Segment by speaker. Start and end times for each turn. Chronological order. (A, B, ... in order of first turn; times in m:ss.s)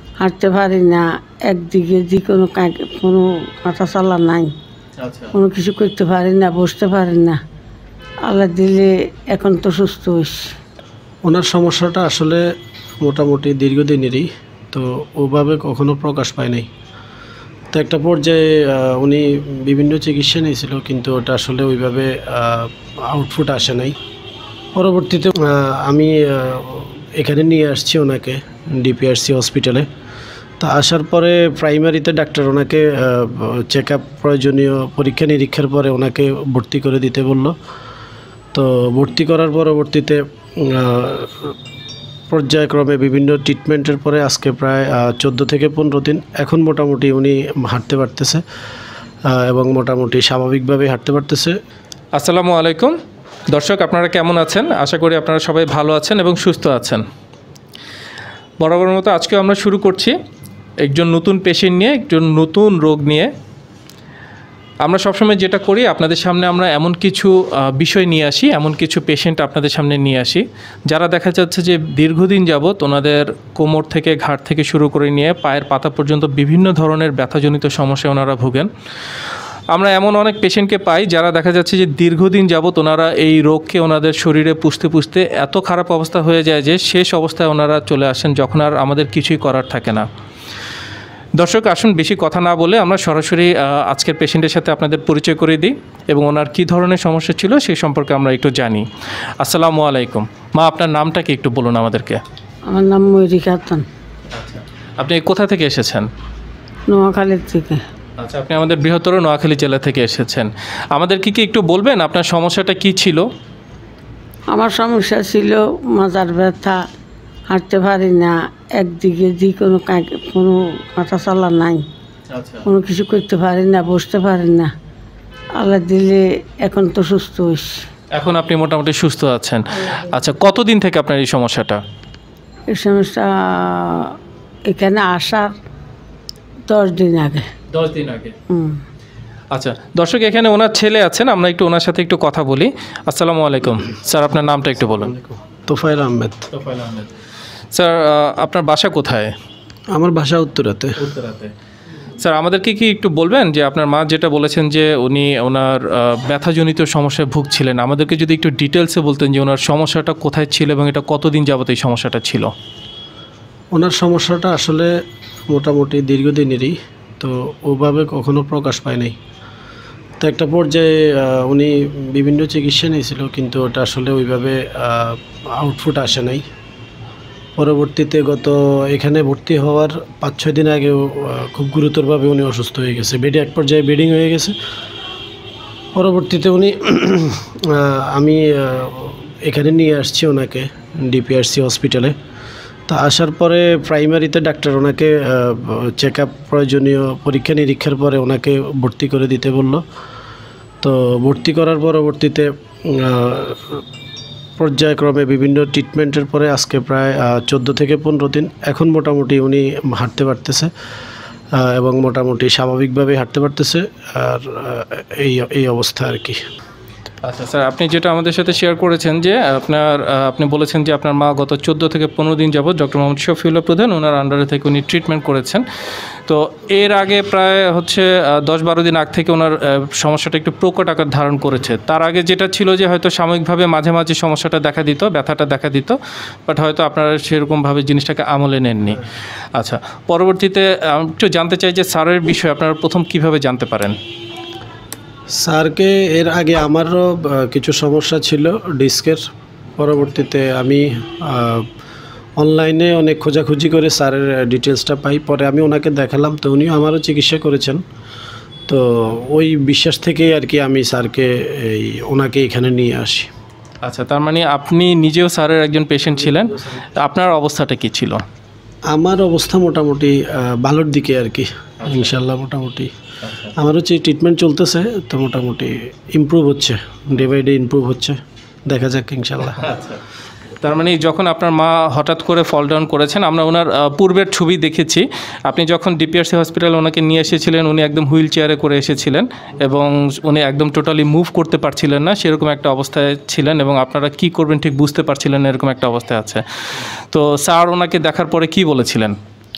0:00.2-0:04.5 A
0:05.0-0:05.3 B
0:05.3-0:07.4 A
0:08.2-0:10.5 A
0:11.2-0:12.4 C
0:13.0-0:16.7 C
0:17.7-0:24.0 C
0:24.8-0:29.9 C
0:30.6-0:37.6 C
0:38.5-0:41.5 C
0:42.3-0:48.4 C
0:49.3-0:51.6 C
0:52.2-0:53.0 B
0:53.5-0:57.0 B
0:58.6-1:00.2 B
1:00.8-1:03.3 B
1:04.8-1:18.7 B
1:19.7-1:30.0 B
1:31.4-1:38.8 B
1:39.4-1:42.2 B
1:42.7-1:43.8 A
1:44.3-1:46.1 B
1:46.9-1:47.8 A
1:48.2-1:53.2 B
1:54.5-1:56.8 A
1:57.5-2:01.8 A
2:02.3-2:02.6 B
2:02.6-2:04.7 A
2:05.6-2:07.8 A
2:08.1-2:11.8 B
2:12.7-2:14.1 A
2:14.7-2:15.5 A
2:16.7-2:17.4 A
2:17.7-2:18.4 B
2:18.5-2:18.8 A
2:19.5-2:25.2 B
2:25.7-2:26.5 C
2:26.5-2:27.1 B
2:27.7-2:29.3 B
2:29.9-2:31.0 C
2:31.0-2:31.5 B
2:32.2-2:42.5 B
2:43.7-2:44.9 C
2:45.5-2:49.2 C
2:50.2-2:56.4 C
2:57.6-3:04.6 C
3:05.9-3:12.2 C
3:12.9-3:19.8 C
3:20.8-3:23.8 C
3:24.6-3:30.7 C
3:31.6-3:36.4 C
3:37.2-3:45.6 B
3:46.3-3:59.0 B
3:59.6-4:04.0 B
4:05.4-4:09.2 C
4:09.8-4:11.7 C
4:12.4-4:17.8 C
4:18.7-4:23.3 C
4:23.8-4:28.2 B
4:28.9-4:32.9 C
4:33.2-4:33.6 B
4:33.6-4:39.6 C
4:39.6-4:40.0 B
4:40.6-4:56.4 B
4:57.1-4:59.2 B